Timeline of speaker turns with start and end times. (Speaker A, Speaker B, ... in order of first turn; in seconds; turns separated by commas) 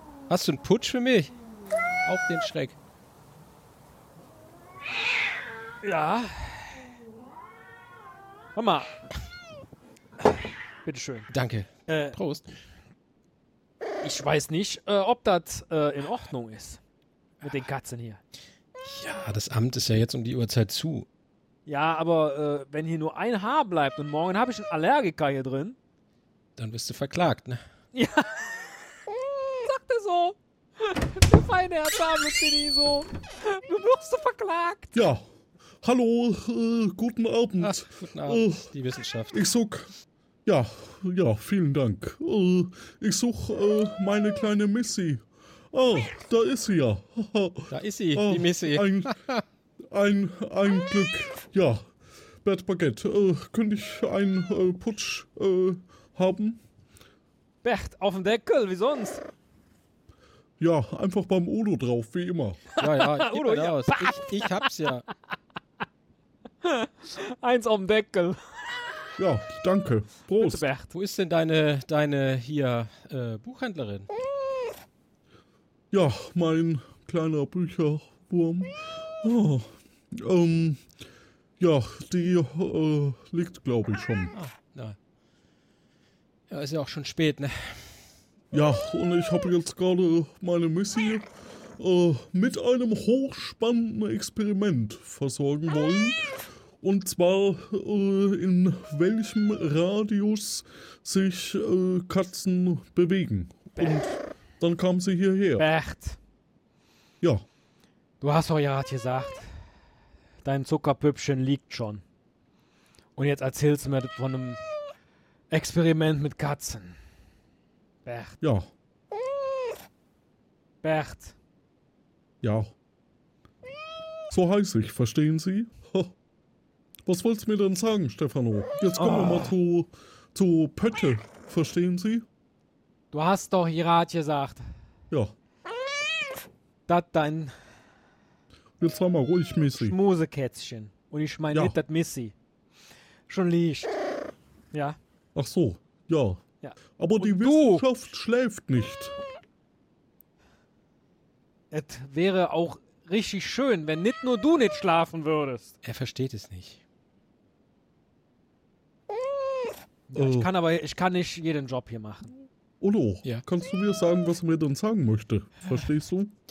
Speaker A: 0.3-1.3, Speaker A: 2.0-2.8, Speaker B: 5.8-6.8, Speaker B: 8.6-8.9, Speaker B: 10.8-11.3, Speaker A: 11.3-12.4, Speaker B: 11.9-12.2, Speaker B: 14.0-16.8, Speaker B: 17.4-18.2, Speaker A: 18.8-21.1, Speaker B: 21.7-25.8, Speaker A: 26.6-27.6, Speaker B: 27.9-28.7, Speaker B: 29.6-35.0, Speaker C: 34.9-35.2, Speaker C: 35.8-38.7, Speaker A: 37.6-39.4, Speaker C: 39.3-39.9, Speaker C: 40.5-49.1, Speaker A: 47.7-49.4, Speaker C: 49.9-51.9, Speaker C: 52.4-56.6, Speaker B: 57.6-59.2, Speaker C: 60.6-62.7, Speaker B: 62.7-64.6, Speaker A: 62.8-65.1, Speaker B: 66.6-68.4, Speaker C: 69.2-70.7, Speaker B: 70.4-70.9, Speaker A: 70.9-74.1, Speaker C: 75.9-80.8, Speaker C: 81.6-84.3, Speaker A: 84.3-85.0, Speaker A: 86.5-88.0, Speaker C: 88.5-91.2, Speaker C: 91.8-96.2, Speaker C: 96.8-105.7, Speaker B: 103.8-104.1, Speaker B: 105.6-106.2, Speaker B: 108.2-109.5, Speaker B: 110.4-112.0, Speaker B: 113.2-114.6, Speaker B: 115.5-117.0, Speaker B: 118.0-118.4, Speaker C: 118.4-118.7, Speaker B: 120.8-121.3, Speaker C: 122.4-122.7, Speaker C: 124.3-126.2, Speaker C: 127.1-132.2, Speaker B: 128.9-129.5, Speaker B: 133.1-134.6, Speaker B: 136.9-137.5, Speaker C: 138.8-140.0, Speaker B: 139.8-142.3, Speaker C: 141.5-141.8, Speaker B: 143.3-143.9, Speaker C: 145.3-146.4, Speaker B: 146.6-147.8, Speaker C: 147.0-149.2, Speaker B: 151.7-155.8, Speaker A: 155.8-156.8, Speaker B: 160.1-162.3, Speaker C: 160.2-160.5, Speaker C: 162.8-166.3